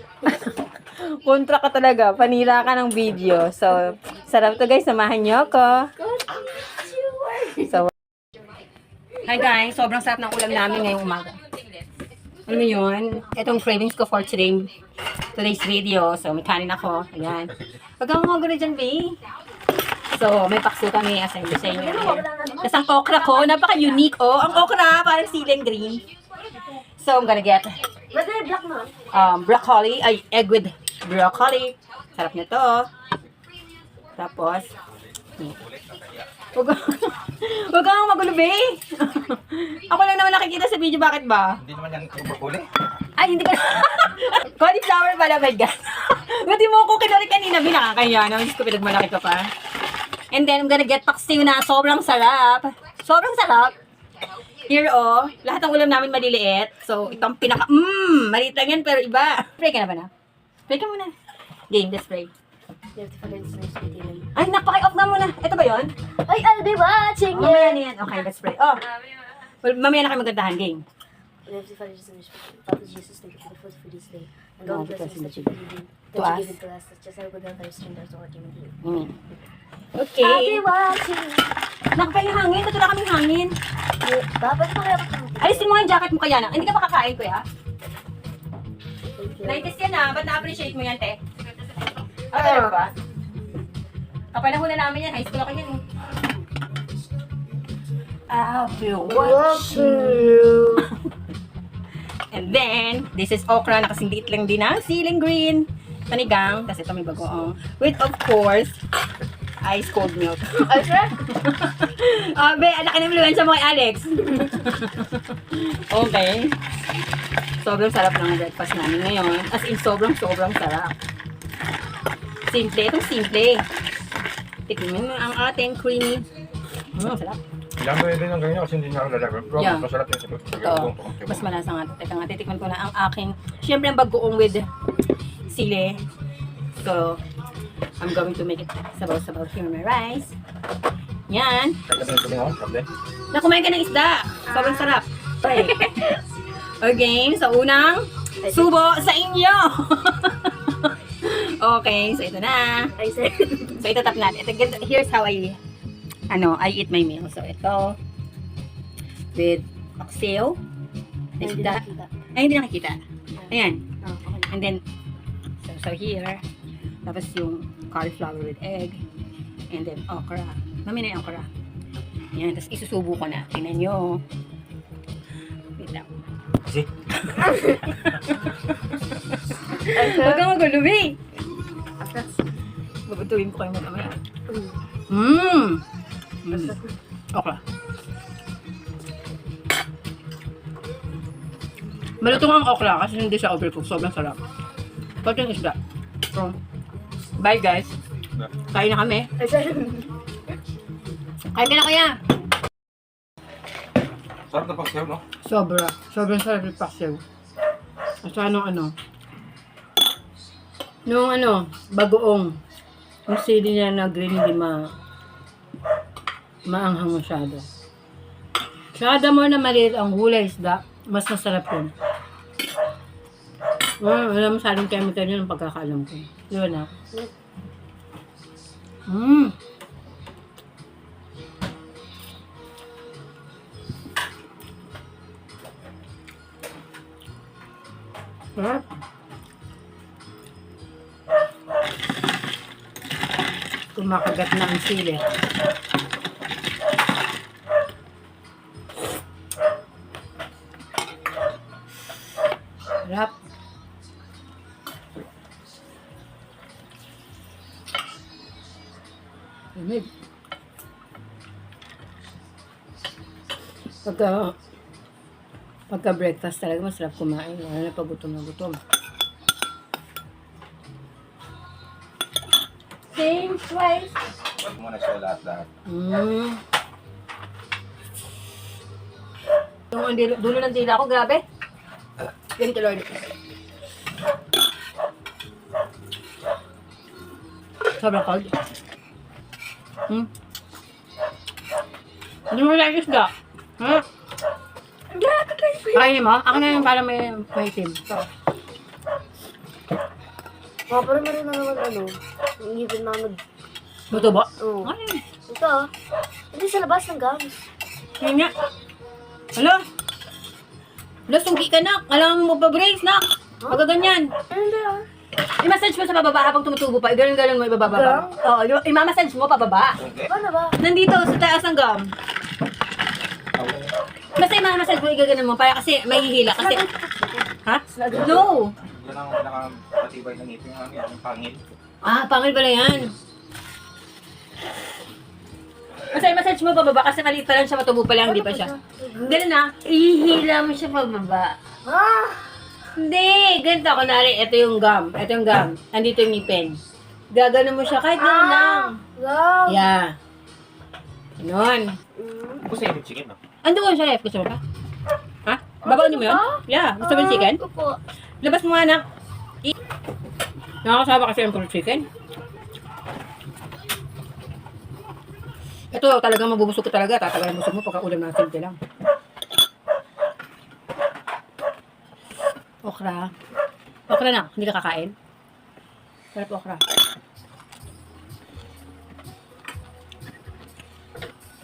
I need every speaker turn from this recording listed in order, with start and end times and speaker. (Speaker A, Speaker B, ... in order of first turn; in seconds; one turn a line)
Speaker A: 0.2-6.1
Speaker B: 6.1-7.5
Speaker A: 7.5-7.9
Speaker A: 9.2-11.4
Speaker A: 12.5-14.7
Speaker A: 15.3-19.2
Speaker A: 20.1-26.0
Speaker B: 21.6-23.9
Speaker A: 27.0-27.8
Speaker B: 28.1-29.0
Speaker A: 29.1-32.9
Speaker A: 34.2-34.7
Speaker C: 35.8-36.1
Speaker A: 36.5-41.6
Speaker C: 41.6-42.7
Speaker A: 43.2-49.5
Speaker A: 50.3-53.8
Speaker A: 54.6-60.1
Speaker A: 60.7-61.1
Speaker A: 61.7-62.3
Speaker B: 63.0-64.3
Speaker A: 64.3-65.9
Speaker B: 66.3-67.8
Speaker A: 67.3-69.0
Speaker A: 69.6-70.8
Speaker B: 71.5-78.8
Speaker A: 74.7-75.5
Speaker A: 76.2-76.6
Speaker A: 78.8-79.2
Speaker A: 80.0-80.6
Speaker B: 80.2-81.5
Speaker A: 82.0-83.5
Speaker B: 84.0-85.8
Speaker A: 85.4-87.5
Speaker B: 89.2-89.7
Speaker A: 89.4-91.2
Speaker A: 92.2-92.9
Speaker B: 92.3-92.8
Speaker A: 94.3-95.9
Speaker A: 98.3-100.9
Speaker B: 99.0-100.9
Speaker A: 102.3-108.8
Speaker A: 109.6-116.6
Speaker B: 110.6-111.2
Speaker A: 117.6-121.0
Speaker A: 122.5-123.7
Speaker A: 124.7-126.3
Speaker A: 126.9-127.4
Speaker C: 127.8-131.5
Speaker A: 129.6-129.9
Speaker A: 130.6-134.7
Speaker A: 135.5-136.0
Speaker A: 136.8-137.2
Speaker A: 138.0-140.4
Speaker A: 141.3-141.8
Speaker C: 141.9-142.9
Speaker A: 143.3-146.1
Speaker B: 144.5-146.2
Speaker A: 146.8-152.9
Speaker B: 148.4-148.7
Speaker B: 153.0-153.8
Speaker A: 153.7-155.6
Speaker A: 156.3-158.0
Speaker A: 159.3-160.6
Speaker A: 161.4-163.8
Speaker B: 161.4-162.1
Speaker B: 164.0-164.5
Speaker A: 164.4-164.8
Speaker A: 165.6-166.4
Speaker A: 167.1-169.0
Speaker A: 169.7-171.5
Speaker A: 172.3-174.2
Speaker A: 175.8-176.1
Speaker A: 177.2-181.2
Speaker B: 179.9-180.5
Speaker B: 182.0-182.3
Speaker A: 183.1-184.2
Speaker B: 184.5-184.8
Speaker A: 185.1-185.8
Speaker A: 186.4-186.8
Speaker B: 186.5-186.8
Speaker A: 187.3-187.6
Speaker A: 192.2-194.4
Speaker A: 195.2-195.8
Speaker A: 197.4-197.9
Speaker A: 198.7-199.3
Speaker B: 199.4-200.1
Speaker A: 201.5-202.2
Speaker C: 204.5-205.2
Speaker A: 205.4-207.2
Speaker A: 208.2-208.9
Speaker A: 211.1-212.6
Speaker A: 213.3-214.9
Speaker A: 216.7-217.7
Speaker A: 218.9-221.9
Speaker A: 224.0-226.9
Speaker A: 229.1-229.6
Speaker A: 238.6-238.9
Speaker A: 243.9-245.2
Speaker A: 253.1-253.3
Speaker A: 259.8-260.1
Speaker A: 264.1-264.6
Speaker A: 265.9-268.8
Speaker A: 273.1-274.2
Speaker C: 274.6-275.7
Speaker A: 275.9-276.6
Speaker A: 279.9-281.4
Speaker A: 282.6-283.1
Speaker A: 288.0-288.6
Speaker A: 292.5-294.1
Speaker B: 295.1-296.8
Speaker A: 295.9-298.2
Speaker B: 300.9-303.4
Speaker A: 304.1-305.2
Speaker B: 304.6-304.9
Speaker B: 305.5-305.9
Speaker B: 306.5-307.6
Speaker A: 308.2-308.5
Speaker A: 309.6-309.8
Speaker A: 311.3-314.3
Speaker B: 314.5-315.1
Speaker A: 315.6-320.0
Speaker B: 317.9-318.4
Speaker C: 320.0-320.3
Speaker B: 320.3-320.8
Speaker A: 320.8-322.1
Speaker C: 323.6-323.9
Speaker A: 324.4-326.9
Speaker B: 326.5-328.4
Speaker A: 327.6-328.7
Speaker C: 328.8-331.6
Speaker A: 332.0-333.1
Speaker A: 336.1-341.6
Speaker B: 338.2-339.4
Speaker B: 341.9-342.5
Speaker A: 342.9-346.8
Speaker A: 347.3-349.0
Speaker B: 348.2-349.9
Speaker A: 349.7-350.2
Speaker A: 351.4-352.0
Speaker B: 352.1-352.7
Speaker C: 352.6-353.4
Speaker A: 353.6-354.6
Speaker A: 355.5-357.6
Speaker B: 355.8-358.0
Speaker A: 358.4-359.1
Speaker A: 360.8-362.1
Speaker A: 365.9-368.8
Speaker A: 372.8-373.3
Speaker A: 374.1-375.1
Speaker A: 376.3-376.8